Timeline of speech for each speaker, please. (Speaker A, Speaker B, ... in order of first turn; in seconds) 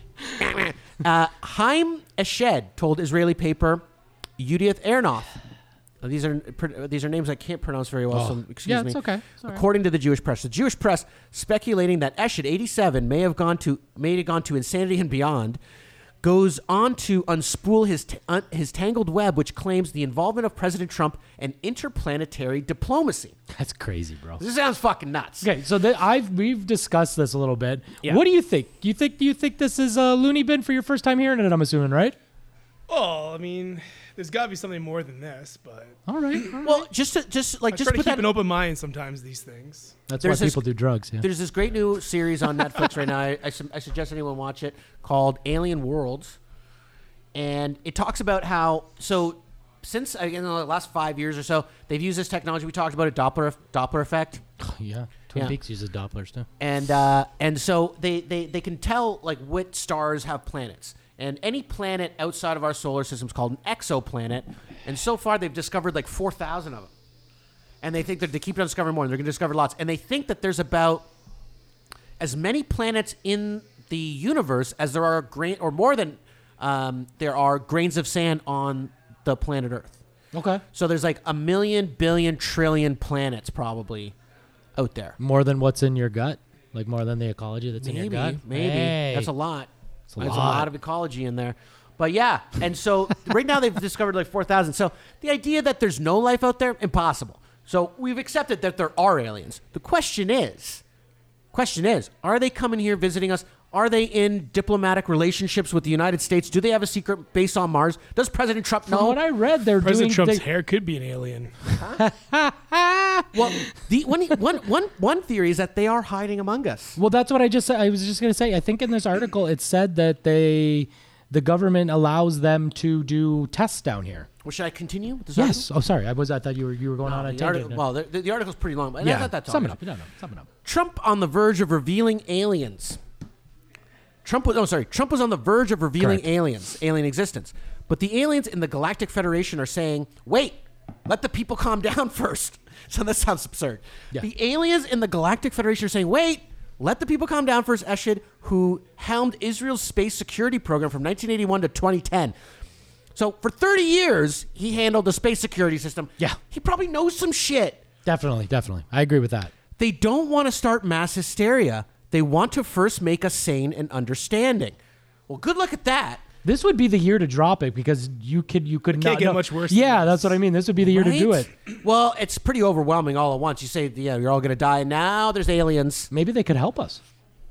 Speaker A: 0.3-3.8, 4.4-5.4, 6.0-15.6, 16.2-23.4, 24.4-25.5, 36.6-38.3, 40.2-40.6, 41.2-46.4, 47.3-54.4, 56.6-66.9, 67.8-71.1, 72.2-80.0, 80.7-84.1, 84.8-85.2, 87.8-100.8, 101.5-109.2, 111.8-112.0, 113.3-117.0, 124.4-125.7, 127.0-129.8, 130.6-133.0, 134.2-152.3, 153.1-157.8, 159.8-164.8, 165.3-166.2, 170.8-176.1
Speaker B: 8.1-9.6, 23.5-24.4, 25.4-32.2, 36.1-36.8, 40.1-41.3, 54.6-56.5, 80.3-80.6, 85.2-89.3, 90.1-90.7, 108.9-110.4, 112.0-113.6, 117.0-124.3, 125.3-127.8, 129.0-130.5, 136.0-136.3, 158.0-159.5, 166.4-171.5, 176.1-177.0
Speaker C: 32.9-36.0, 37.7-40.0, 109.8-111.5, 168.9-170.4